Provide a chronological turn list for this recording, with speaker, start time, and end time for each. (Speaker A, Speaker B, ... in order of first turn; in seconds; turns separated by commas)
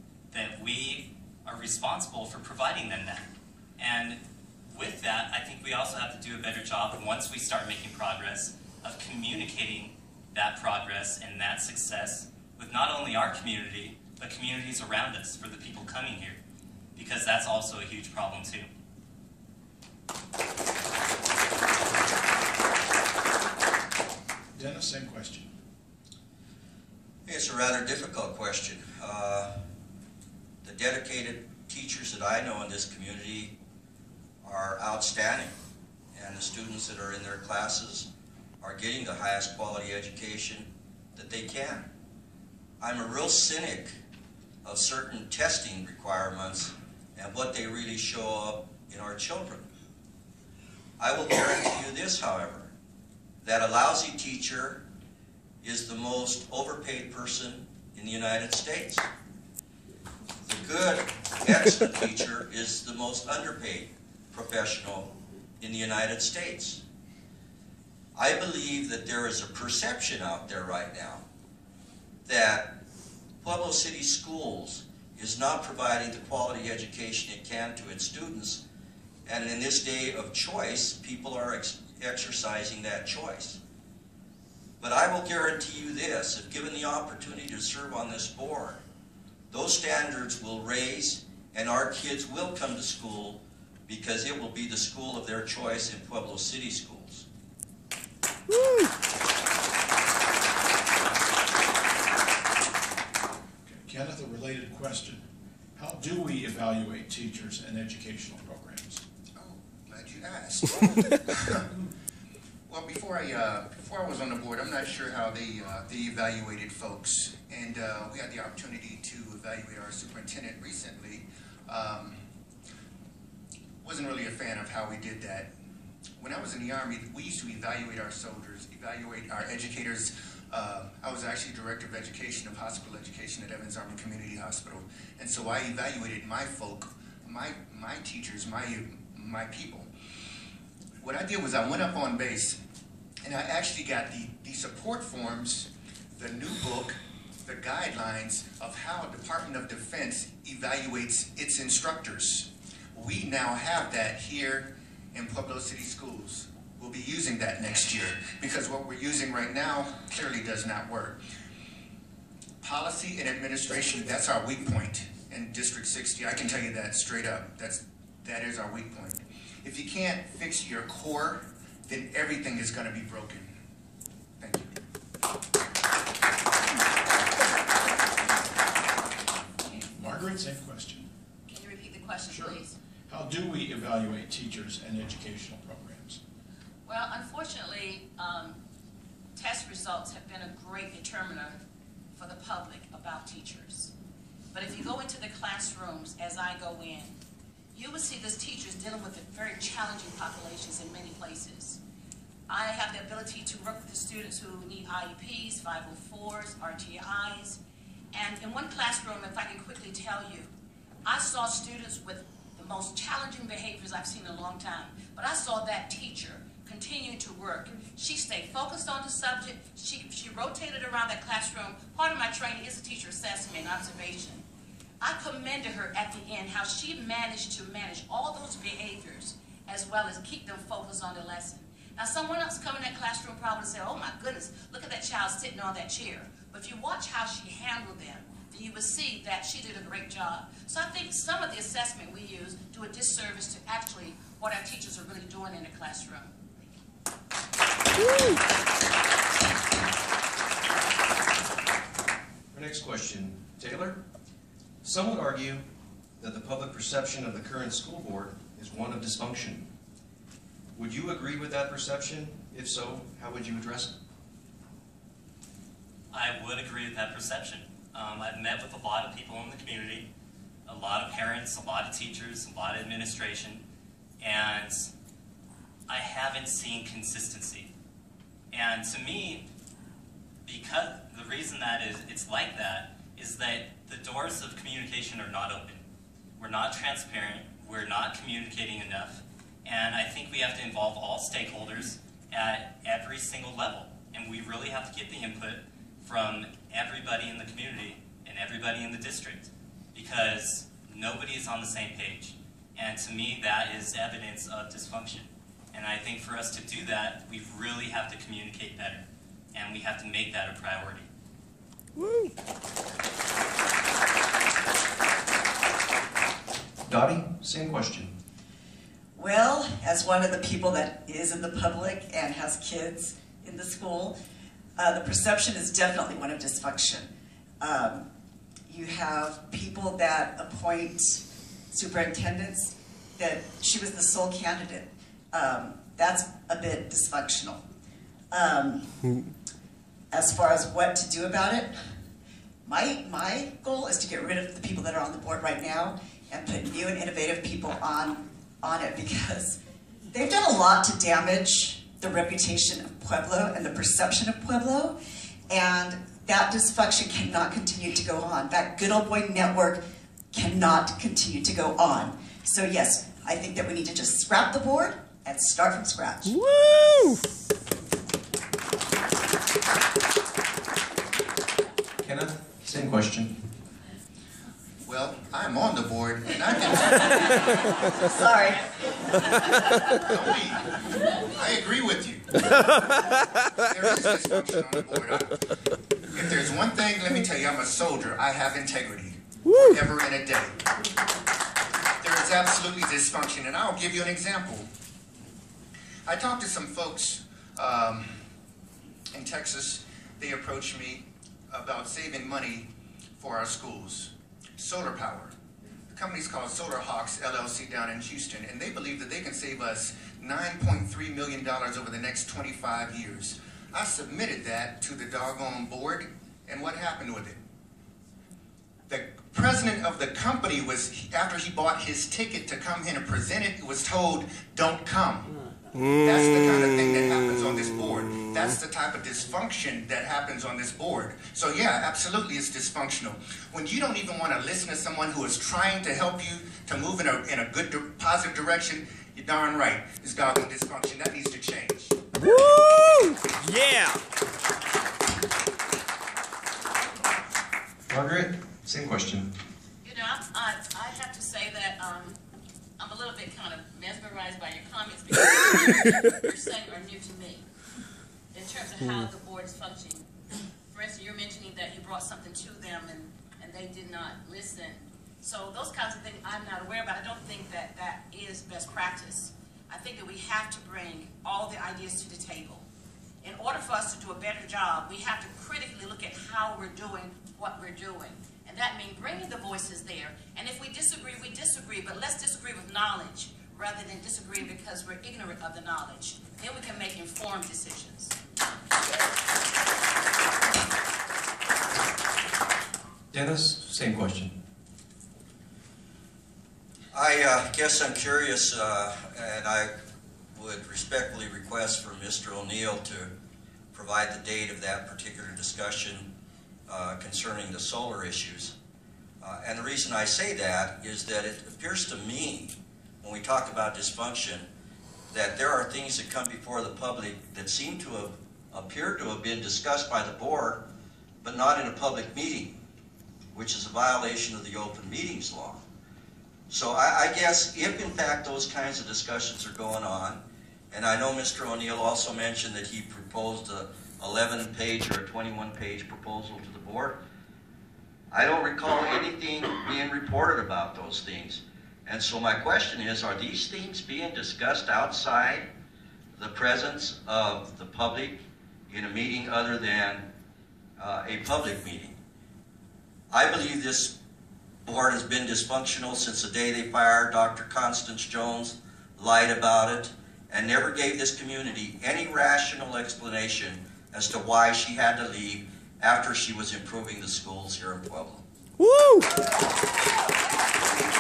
Speaker A: 0.3-16.4, Speaker A: 17.0-18.7, Speaker B: 24.6-25.5, Speaker C: 27.3-29.6, Speaker C: 30.6-33.6, Speaker C: 34.4-35.5, Speaker C: 36.1-38.1, Speaker C: 38.6-41.9, Speaker C: 42.8-44.0, Speaker C: 44.6-49.7, Speaker C: 51.0-52.7, Speaker C: 53.4-54.8, Speaker C: 55.6-59.1, Speaker C: 60.5-66.8, Speaker C: 68.1-71.2, Speaker C: 72.2-72.8, Speaker C: 73.4-78.6, Speaker C: 79.3-83.6, Speaker C: 84.8-88.8, Speaker C: 89.5-97.3, Speaker B: 103.7-105.2, Speaker B: 105.8-109.0, Speaker D: 109.3-111.7, Speaker D: 112.7-122.2, Speaker D: 123.8-125.5, Speaker D: 126.2-139.9, Speaker D: 141.0-142.6, Speaker D: 143.2-161.2, Speaker D: 162.6-173.5, Speaker D: 174.4-174.8, Speaker B: 179.8-181.1, Speaker E: 181.5-182.8, Speaker B: 182.3-186.2, Speaker E: 186.9-188.6, Speaker E: 189.3-191.6, Speaker E: 192.2-193.9, Speaker E: 194.5-197.2, Speaker E: 197.7-201.8, Speaker E: 202.5-207.6, Speaker E: 208.1-210.5, Speaker E: 211.1-224.4, Speaker E: 225.0-246.3, Speaker F: 252.5-254.0, Speaker F: 254.8-255.7, Speaker F: 256.2-259.7, Speaker F: 260.8-264.0, Speaker A: 266.1-270.1, Speaker A: 270.7-273.6, Speaker A: 274.2-274.9, Speaker A: 275.9-277.7, Speaker A: 278.5-279.5, Speaker A: 280.4-285.8, Speaker A: 286.4-311.1, Speaker G: 312.0-312.3, Speaker F: 316.9-318.1, Speaker H: 319.1-324.1, Speaker H: 324.8-327.1, Speaker H: 327.6-328.1, Speaker H: 328.7-337.6, Speaker H: 338.3-339.1, Speaker H: 340.1-341.8, Speaker H: 342.6-349.6, Speaker H: 350.1-355.0, Speaker H: 355.5-359.8, Speaker H: 360.3-366.4, Speaker G: 366.5-367.2, Speaker F: 372.0-373.4, Speaker D: 374.9-377.7, Speaker H: 378.1-378.7, Speaker D: 380.0-383.0, Speaker D: 383.6-385.6, Speaker D: 386.1-390.6, Speaker D: 392.0-394.7, Speaker D: 396.1-398.1, Speaker D: 399.1-405.3, Speaker D: 405.9-417.4, Speaker D: 418.9-425.4, Speaker D: 425.9-442.0, Speaker G: 442.2-444.0, Speaker F: 447.9-449.3, Speaker E: 449.8-452.2, Speaker E: 452.8-457.4, Speaker E: 458.3-460.1, Speaker E: 460.7-472.7, Speaker E: 473.2-488.1, Speaker F: 493.1-494.3, Speaker C: 496.9-499.7, Speaker C: 500.4-503.1, Speaker C: 503.7-506.1, Speaker C: 506.7-508.6, Speaker C: 509.2-514.5, Speaker C: 515.1-520.7, Speaker C: 521.2-522.6, Speaker C: 523.3-525.6, Speaker C: 526.5-537.0, Speaker C: 538.1-545.5, Speaker C: 546.1-550.1, Speaker C: 550.8-552.0, Speaker C: 553.1-554.0, Speaker C: 554.6-568.2, Speaker G: 568.7-569.0